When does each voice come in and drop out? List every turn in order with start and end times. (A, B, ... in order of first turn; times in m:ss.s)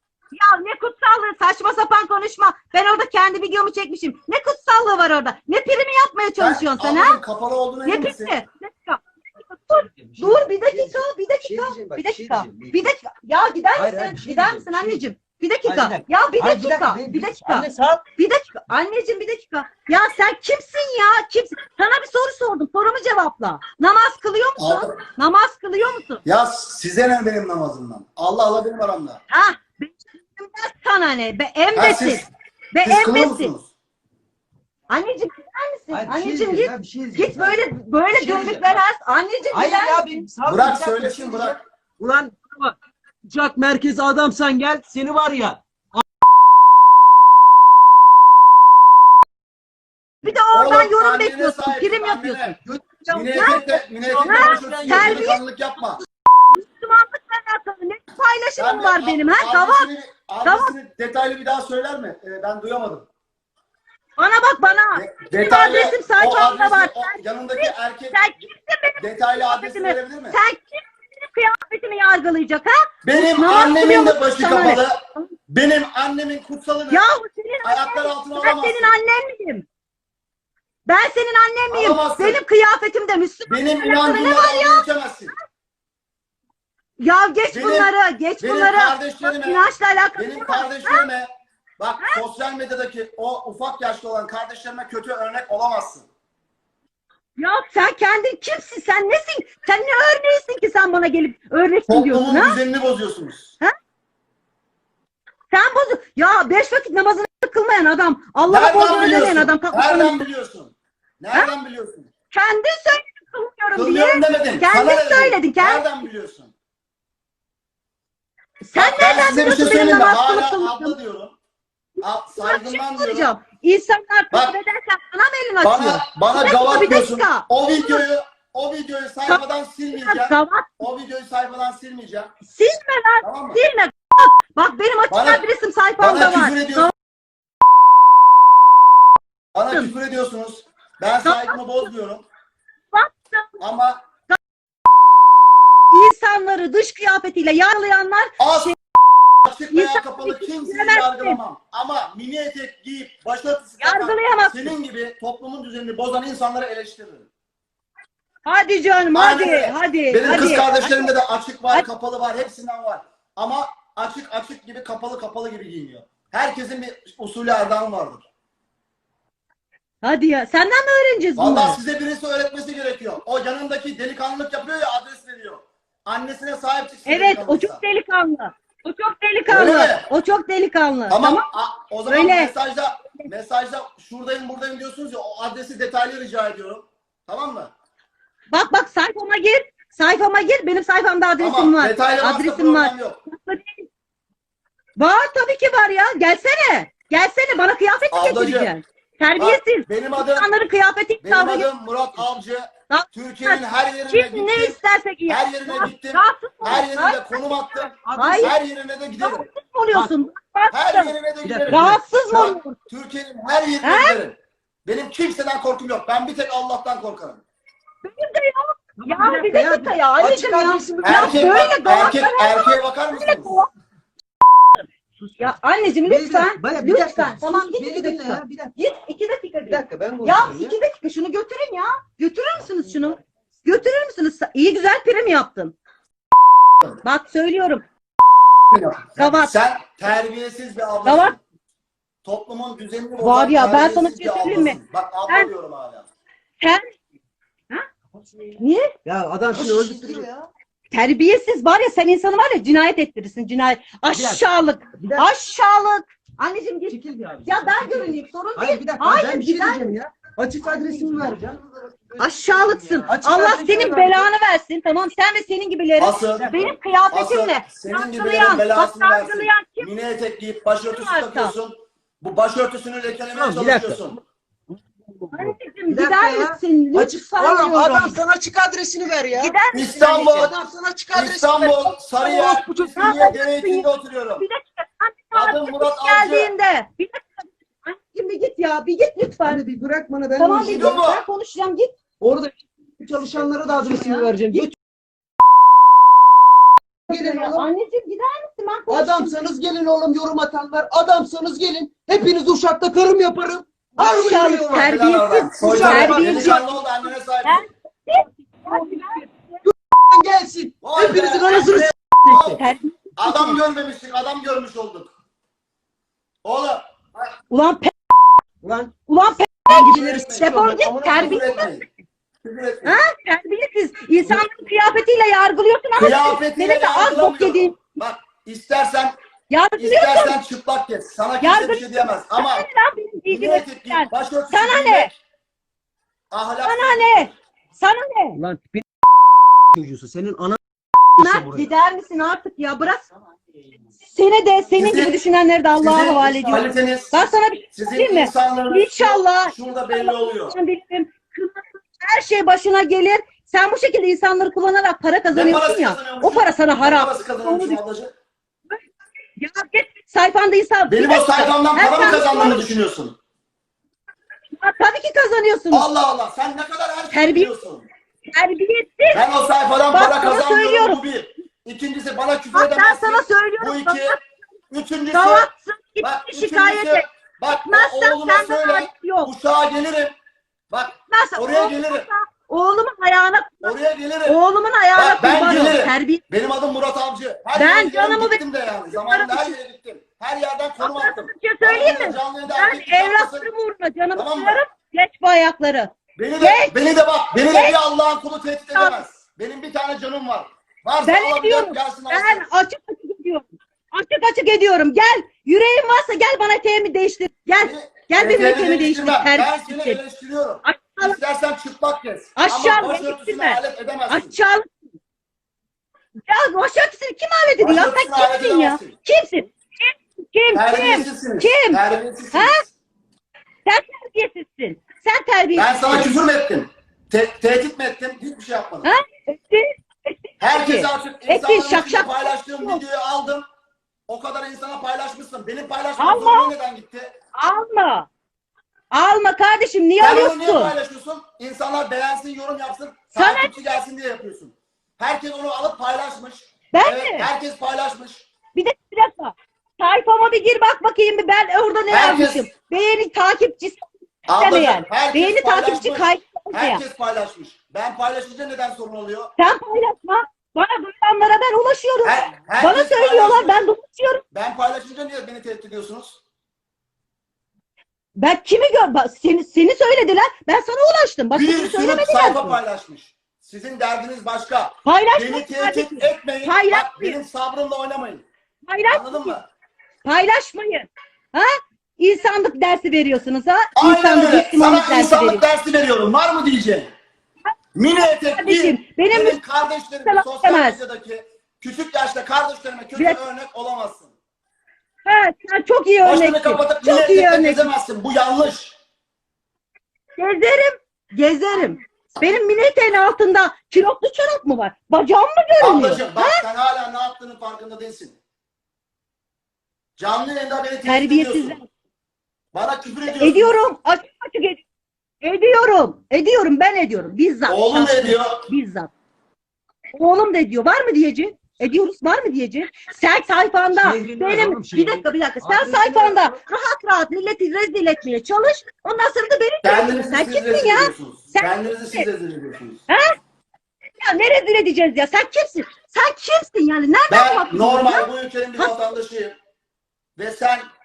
0:00.3-0:07.2 A
0:06.4-0:08.4 B
0:07.8-0:26.2 A
0:09.9-0:12.9 C
0:13.8-0:15.1 C
0:15.6-0:18.0 C
0:24.6-0:25.0 B
0:26.2-0:29.2 B
0:29.3-0:33.5 A
0:31.8-0:32.3 B
0:32.8-0:33.7 B
0:34.9-0:40.2 A
0:35.9-0:37.6 C
0:38.1-0:38.8 C
0:39.5-0:46.0 C
0:40.4-0:41.6 B
0:50.2-0:52.6 A
0:50.2-0:52.6 B
0:52.6-0:55.4 C
0:53.1-0:56.0 B
0:53.3-0:53.6 A
0:54.2-0:55.4 A
0:56.5-0:59.9 A
0:58.6-1:03.1 B
1:00.4-1:00.7 A
1:04.2-1:15.3 A
1:04.9-1:08.4 B
1:09.0-1:10.4 B
1:13.0-1:17.1 B
1:16.9-1:19.7 A
1:17.6-1:18.9 B
1:20.9-1:24.9 A
1:21.7-1:22.4 B
1:23.5-1:25.3 B
1:27.0-1:31.1 A
1:27.5-1:36.1 B
1:37.4-1:42.6 A
1:41.9-1:43.5 B
1:45.5-1:50.2 A
1:48.5-1:52.1 B
1:52.3-1:56.1 A
1:53.8-1:56.5 B
1:58.6-2:01.0 A
1:58.8-2:01.4 B
2:02.0-2:03.3 B
2:02.3-2:08.0 A
2:05.6-2:12.3 B
2:09.3-2:10.8 A
2:12.5-2:16.9 A
2:13.2-2:13.6 B
2:15.1-2:15.4 B
2:16.0-2:16.9 B
2:19.6-2:22.2 B
2:21.2-2:21.9 A
2:22.9-2:23.5 A
2:23.6-2:24.0 B
2:25.9-2:28.8 A
2:28.4-2:28.7 B
2:29.4-2:37.3 B
2:29.7-2:31.4 A
2:33.8-2:34.8 A
2:38.4-2:41.1 A
2:39.1-2:48.3 B
2:50.0-2:51.8 A
2:51.4-2:57.8 B
2:57.1-3:01.4 A
2:59.4-3:00.1 B
3:01.1-3:07.7 B
3:02.1-3:02.5 A
3:08.5-3:13.9 A
3:11.4-3:13.2 B
3:15.0-3:21.7 A
3:18.1-3:18.7 B
3:19.4-3:20.5 B
3:21.2-3:29.4 B
3:22.9-3:27.4 A
3:27.7-3:28.5 C
3:28.1-3:28.5 A
3:29.2-3:31.1 A
3:30.7-3:37.4 B
3:31.4-3:32.0 C
3:31.7-3:32.8 A
3:33.8-3:34.2 A
3:38.0-3:43.7 A
3:39.0-3:41.6 C
3:41.0-3:43.6 B
3:45.4-3:55.8 A
3:46.0-3:48.8 C
3:49.7-3:50.8 C
3:57.0-3:57.8 A
3:58.7-4:01.4 B
3:59.2-3:59.6 A
4:01.0-4:01.4 A
4:02.2-4:06.1 B
4:03.2-4:05.5 A
4:08.6-4:08.9 A
4:09.0-4:10.3 C
4:09.5-4:10.3 A
4:10.9-4:19.8 A
4:14.1-4:14.4 C
4:15.0-4:15.3 C
4:16.9-4:24.3 C
4:22.2-4:30.0 A
4:26.0-4:26.5 B
4:26.4-4:26.8 C
4:27.1-4:34.2 B
4:30.9-4:31.5 A
4:33.3-4:34.2 C
4:35.0-4:39.6 C
4:35.3-4:38.2 A
4:39.4-4:40.5 A
4:39.7-4:40.5 B
4:40.1-4:43.1 C
4:41.1-4:44.4 B
4:42.2-4:49.6 A
4:45.3-4:46.5 B
4:49.4-4:51.0 C
4:50.4-4:51.9 A
4:50.6-4:51.2 B
4:52.2-4:54.8 C
4:53.8-4:54.7 A
4:57.1-4:57.7 C
4:57.1-4:59.4 A
4:58.9-5:05.0 C
5:04.0-5:06.8 A
5:04.7-5:07.6 B
5:05.6-5:06.6 C
5:07.4-5:09.3 A
5:08.7-5:12.6 C
5:10.8-5:12.6 B
5:12.5-5:13.6 A
5:13.2-5:15.1 B
5:16.4-5:17.3 B
5:17.5-5:18.0 A
5:18.6-5:18.9 C
5:19.1-5:21.8 A
5:19.7-5:21.7 C
5:19.7-5:21.9 B
5:22.4-5:23.0 B
5:22.8-5:27.9 A
5:26.0-5:29.1 B
5:29.5-5:30.4 A
5:29.8-5:32.7 B
5:31.4-5:35.1 A
5:33.3-5:35.1 B
5:36.3-5:37.3 B
5:36.6-5:38.4 A
5:38.4-5:39.0 C
5:39.7-5:40.6 C
5:41.2-5:41.7 C
5:41.2-5:43.1 A
5:44.1-5:57.8 A
5:44.8-5:45.2 B
5:45.8-5:50.6 B
5:55.3-5:58.1 B
5:59.4-6:02.7 A
6:00.9-6:03.2 B
6:04.6-6:05.9 A
6:05.7-6:07.9 B
6:07.1-6:07.5 A
6:08.3-6:09.2 A
6:09.1-6:14.2 B
6:09.9-6:11.0 A
6:12.5-6:14.1 A
6:14.7-6:15.5 B
6:15.1-6:19.3 A
6:16.0-6:20.1 B
6:20.7-6:22.1 B
6:21.1-6:23.7 A
6:23.6-6:24.4 B
6:24.2-6:26.2 A
6:24.9-6:33.5 B
6:27.5-6:29.6 A
6:30.8-6:36.8 A
6:34.1-6:34.6 B
6:36.2-6:42.4 B
6:37.3-6:37.8 A
6:38.8-6:39.0 A
6:41.0-6:50.0 A
6:47.6-6:54.3 B
6:50.6-6:51.2 A
6:52.4-6:54.8 A
6:56.3-7:01.8 A
6:57.6-6:59.0 B
7:00.5-7:02.7 B
7:02.3-7:02.6 A
7:03.6-7:06.1 A
7:05.5-7:08.9 B
7:08.8-7:12.8 A
7:10.4-7:13.4 B
7:14.1-7:17.1 B
7:16.0-7:16.5 A
7:17.4-7:18.1 A
7:18.9-7:20.8 A
7:20.0-7:28.3 B
7:23.1-7:23.5 A
7:26.7-7:27.3 A
7:28.5-7:36.8 A
7:31.9-7:32.5 B
7:34.3-7:39.3 B
7:39.4-7:44.2 A
7:42.0-7:43.6 B
7:44.3-7:46.2 B
7:48.2-7:52.6 A
7:51.3-7:58.2 B
7:54.8-7:57.2 A
7:58.7-7:59.4 A
7:58.9-7:59.5 B
8:00.0-8:05.4 A
8:03.8-8:06.9 B
8:07.8-8:14.1 B
8:08.4-8:09.4 A
8:10.0-8:10.8 A
8:13.0-8:13.2 A
8:15.0-8:17.7 A
8:16.0-8:18.8 B
8:20.2-8:26.4 A
8:25.6-8:28.2 B
8:30.0-8:31.6 B
8:30.8-8:31.6 A
8:32.5-8:33.5 B
8:33.1-8:34.6 A
8:35.2-8:38.9 A
8:37.5-8:38.5 B
8:40.0-8:52.1 A
8:43.7-8:46.4 C
8:49.6-8:52.8 B
8:52.9-8:53.1 A
8:54.0-8:58.8 A
8:57.1-8:59.4 B
9:00.2-9:00.7 B